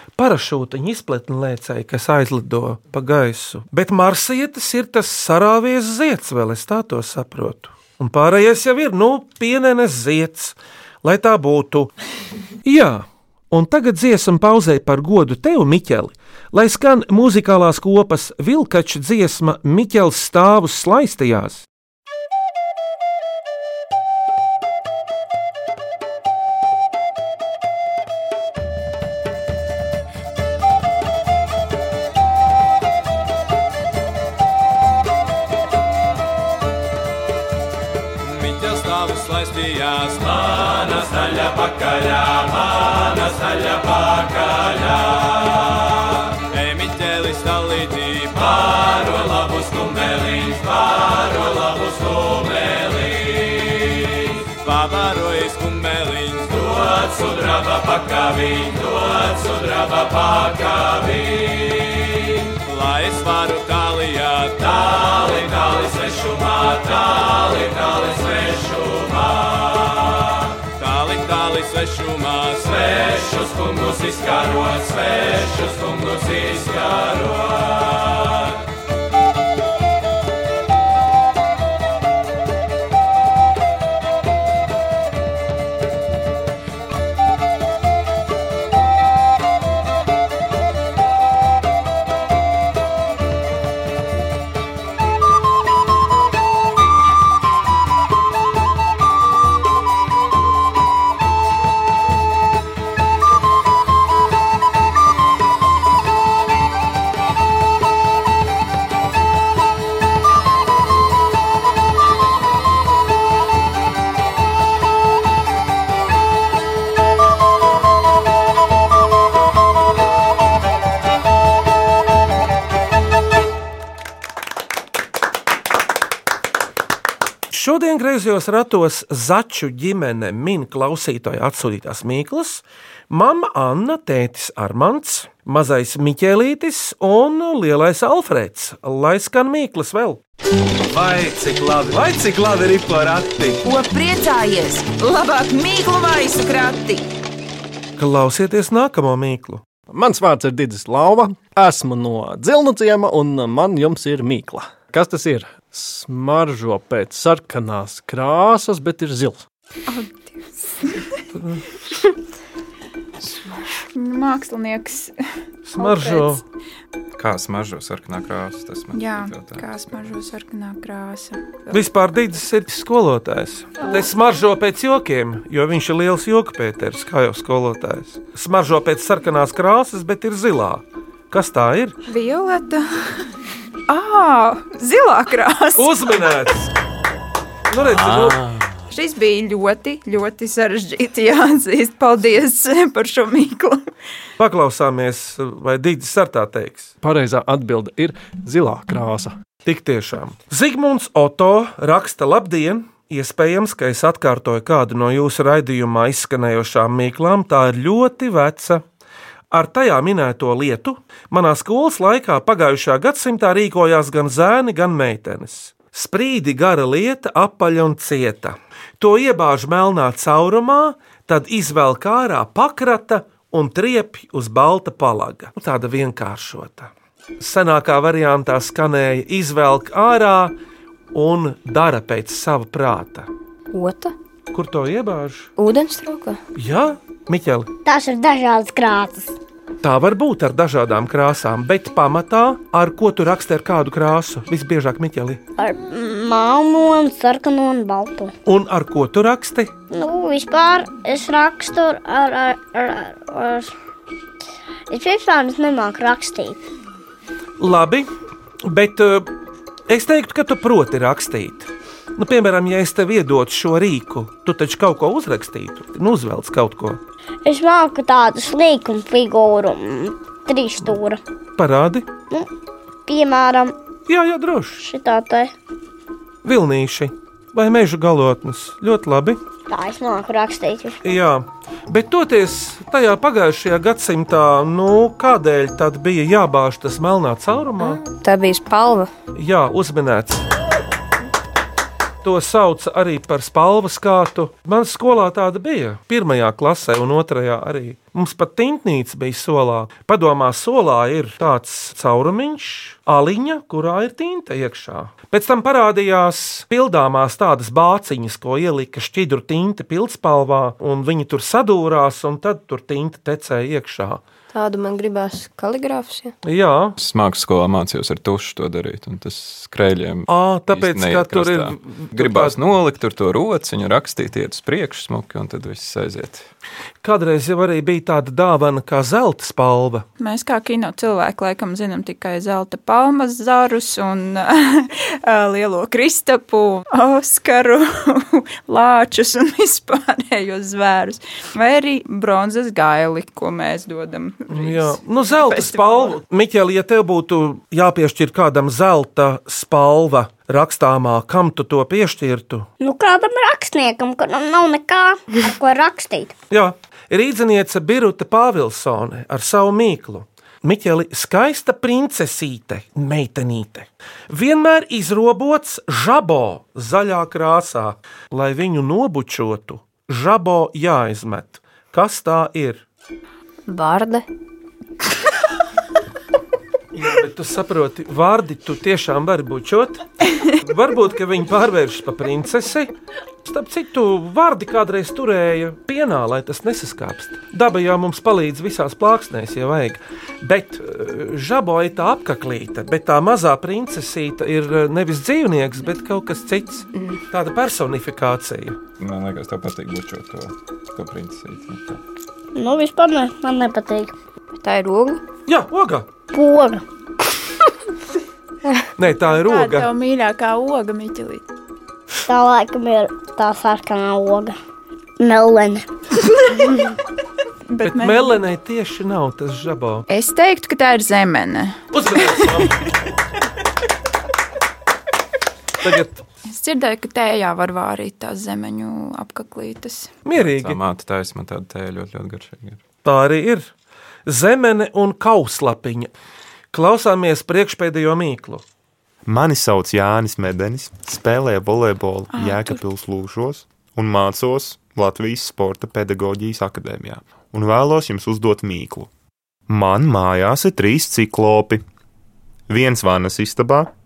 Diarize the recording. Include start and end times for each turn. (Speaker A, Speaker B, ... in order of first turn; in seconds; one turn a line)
Speaker A: 0.2-11.9
Speaker A: 12.6-21.7
Speaker B: 38.2-45.5
Speaker B: 46.5-69.6
Speaker B: 70.7-77.7
Speaker A: 127.5-140.2
Speaker C: 143.6-147.1
Speaker A: 148.0-149.6
Speaker D: 149.9-159.4
Speaker E: 159.9-161.1
Speaker A: 161.3-161.6
Speaker E: 163.9-165.2
Speaker A: 165.7-166.4
Speaker E: 165.8-166.4
Speaker F: 167.1-169.7
Speaker E: 168.9-171.8
Speaker A: 171.7-182.0
Speaker E: 173.8-174.1
Speaker E: 182.1-183.2
Speaker E: 183.9-185.9
Speaker A: 185.8-186.7
Speaker A: 187.7-188.5
Speaker F: 187.8-188.8
Speaker E: 188.9-193.8
Speaker A: 194.4-196.9
Speaker D: 197.0-199.4
Speaker A: 199.6-208.8
Speaker A: 209.5-230.5
Speaker A: 231.1-233.3
Speaker G: 233.7-234.1
Speaker A: 234.5-235.5
Speaker G: 235.6-236.4
Speaker A: 236.5-237.7
Speaker H: 237.8-239.3
Speaker A: 239.8-245.4
Speaker H: 245.6-248.3
Speaker A: 248.4-249.7
Speaker H: 249.9-253.7
Speaker H: 254.9-256.6
Speaker A: 257.6-258.1
Speaker A: 258.6-259.3
Speaker A: 259.9-267.0
Speaker H: 267.4-271.2
Speaker A: 271.6-272.1
Speaker H: 273.1-273.8
Speaker A: 274.1-274.8
Speaker H: 274.8-275.5
Speaker A: 276.4-279.4
Speaker H: 279.7-281.0
Speaker A: 281.0-288.0
Speaker G: 287.8-289.1
Speaker A: 289.4-290.4
Speaker A: 292.2-314.2
Speaker G: 314.5-316.3
Speaker A: 316.4-317.0
Speaker F: 317.0-326.5
Speaker A: 320.3-322.6
Speaker A: 327.0-330.1
Speaker E: 330.2-346.1
Speaker A: 344.5-352.7
Speaker H: 352.8-356.4
Speaker A: 356.5-372.8
Speaker G: 373.6-374.2
Speaker A: 376.9-382.9
Speaker A: 383.4-398.8
Speaker F: 399.0-402.0
Speaker H: 402.5-404.1
Speaker G: 404.6-405.2
Speaker A: 405.5-406.1
Speaker H: 406.3-406.8
Speaker A: 409.0-409.9
Speaker E: 409.1-411.4
Speaker H: 412.2-414.5
Speaker H: 415.2-415.9
Speaker E: 417.7-418.4
Speaker A: 417.8-420.0
Speaker E: 420.1-422.9
Speaker A: 421.9-422.9
Speaker A: 425.8-426.2
Speaker E: 426.4-430.1
Speaker A: 430.2-430.8
Speaker F: 430.3-432.8
Speaker A: 433.0-433.7
Speaker A: 434.2-436.1
Speaker A: 436.7-438.6
Speaker I: 439.2-449.1
Speaker E: 442.3-442.8
Speaker I: 449.7-451.8
Speaker I: 452.7-453.9